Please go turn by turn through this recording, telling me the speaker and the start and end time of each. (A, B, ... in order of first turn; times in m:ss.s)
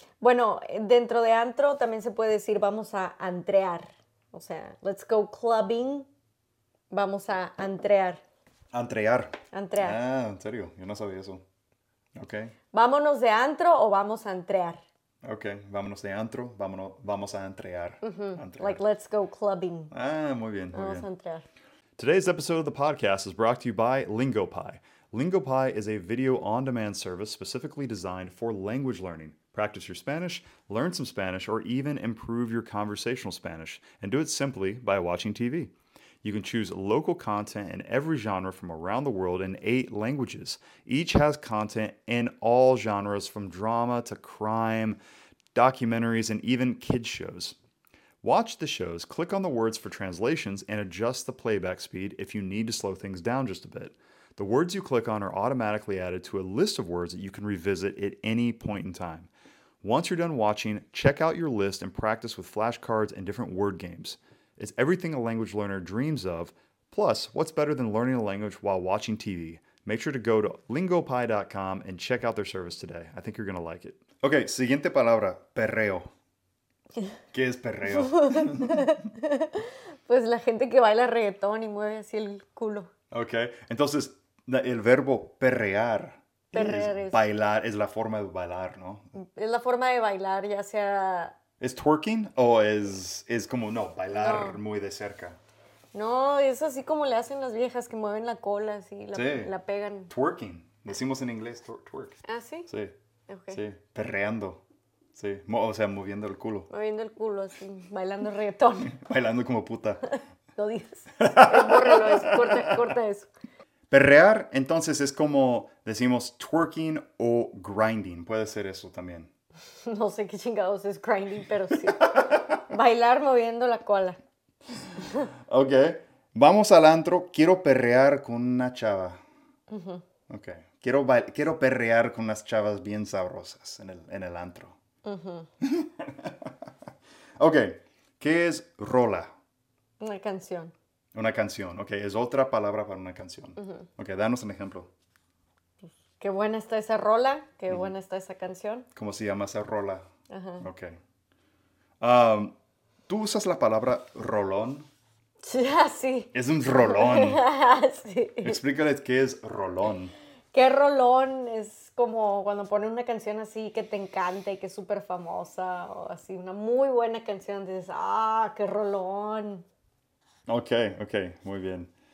0:00.2-0:06.1 A
0:06.9-0:08.2 A
0:08.7-0:11.4 B
0:09.5-0:10.0 A
0:12.2-0:12.5 B
0:12.7-0:14.8 A
0:15.2-0:18.8 B
0:18.0-0:19.9 A
0:19.9-0:21.1 B
0:20.7-0:21.4 A
0:22.0-0:45.0 B
0:45.5-0:47.6 B
0:48.2-0:59.3 B
0:59.8-1:16.1 B
1:17.3-1:18.9 B
1:17.9-1:22.9 A
1:23.1-1:29.1 B
1:26.5-1:27.2 A
1:29.2-1:31.4 A
1:31.6-1:35.4 B
1:34.1-1:34.6 A
1:35.9-1:40.1 A
1:39.1-1:39.5 B
1:40.1-1:42.9 B
1:42.2-1:42.7 A
1:43.3-1:43.6 A
1:43.5-1:44.6 B
1:45.1-1:46.7 B
1:46.7-1:49.0 A
1:48.8-1:50.1 B
1:50.6-1:53.3 A
1:51.2-1:52.8 B
1:53.9-1:59.3 B
1:59.8-2:04.2 A
2:02.0-2:02.6 B
2:05.2-2:09.2 B
2:09.7-2:10.0 A
2:10.3-2:14.8 B
2:15.0-2:15.5 A
2:15.6-2:16.5 B
2:17.4-2:19.3 B
2:20.0-2:20.7 A
2:21.1-2:24.9 B
2:23.6-2:23.9 A
2:25.8-2:28.9 A
2:28.9-2:30.0 B
2:30.3-2:30.6 A
2:30.6-2:31.0 B
2:32.0-2:32.6 B
2:33.1-2:34.9 B
2:35.4-2:38.6 A
2:36.3-2:37.4 B
2:38.4-2:40.1 B
2:40.5-2:49.6 A
2:50.5-2:51.9 B